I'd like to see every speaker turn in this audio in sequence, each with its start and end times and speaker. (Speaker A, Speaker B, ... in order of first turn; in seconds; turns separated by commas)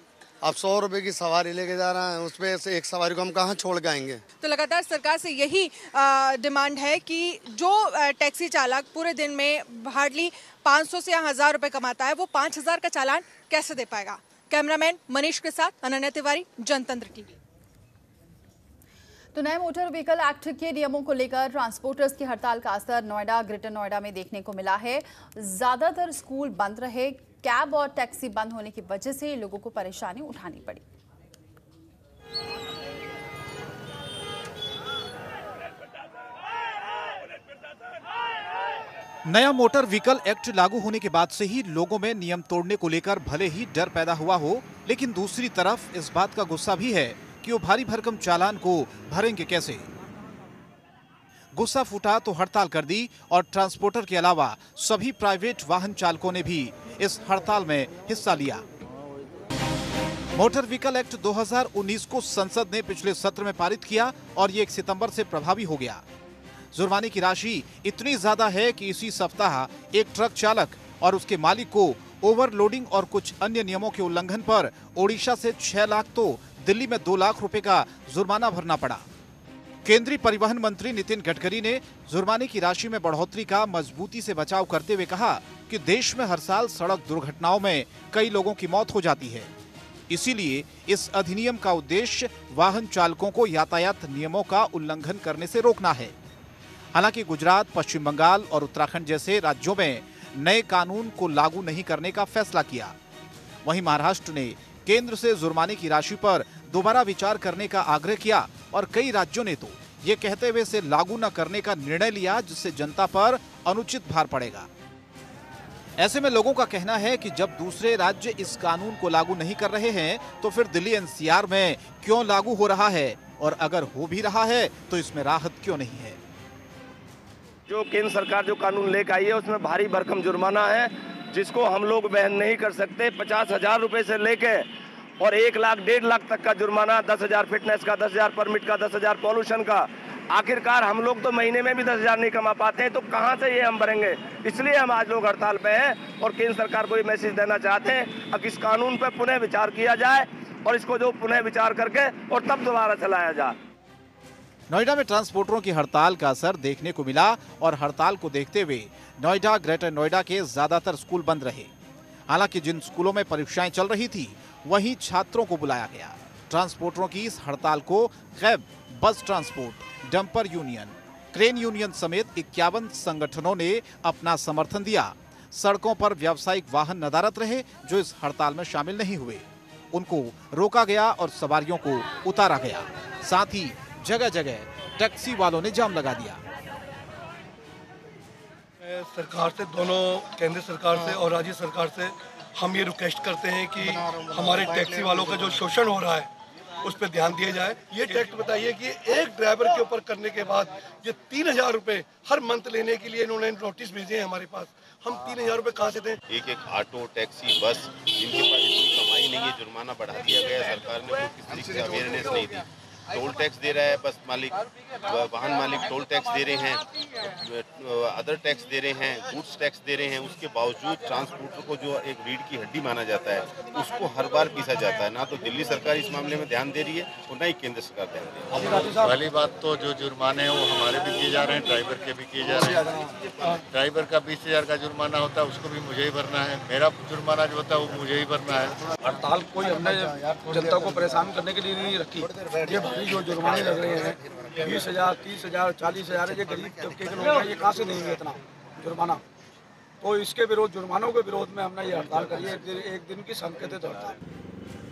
Speaker A: 0.4-4.2, Speaker B: 4.4-17.4, Speaker C: 19.3-30.8, Speaker D: 39.2-49.9, Speaker D: 51.5-58.6, Speaker D: 60.3-66.0, Speaker D: 66.7-79.0, Speaker D: 79.8-89.5, Speaker D: 90.1-96.1, Speaker D: 96.9-102.9, Speaker D: 103.6-114.7, Speaker D: 116.0-126.2, Speaker E: 127.7-134.7, Speaker E: 135.2-153.5, Speaker D: 154.7-161.7, Speaker D: 162.3-186.4, Speaker F: 188.8-196.3, Speaker F: 196.8-206.2, Speaker G: 206.3-228.7, Speaker H: 228.5-229.1, Speaker I: 229.0-232.9, Speaker H: 232.5-233.6, Speaker I: 233.7-238.8, Speaker H: 239.0-249.2, Speaker H: 250.0-254.2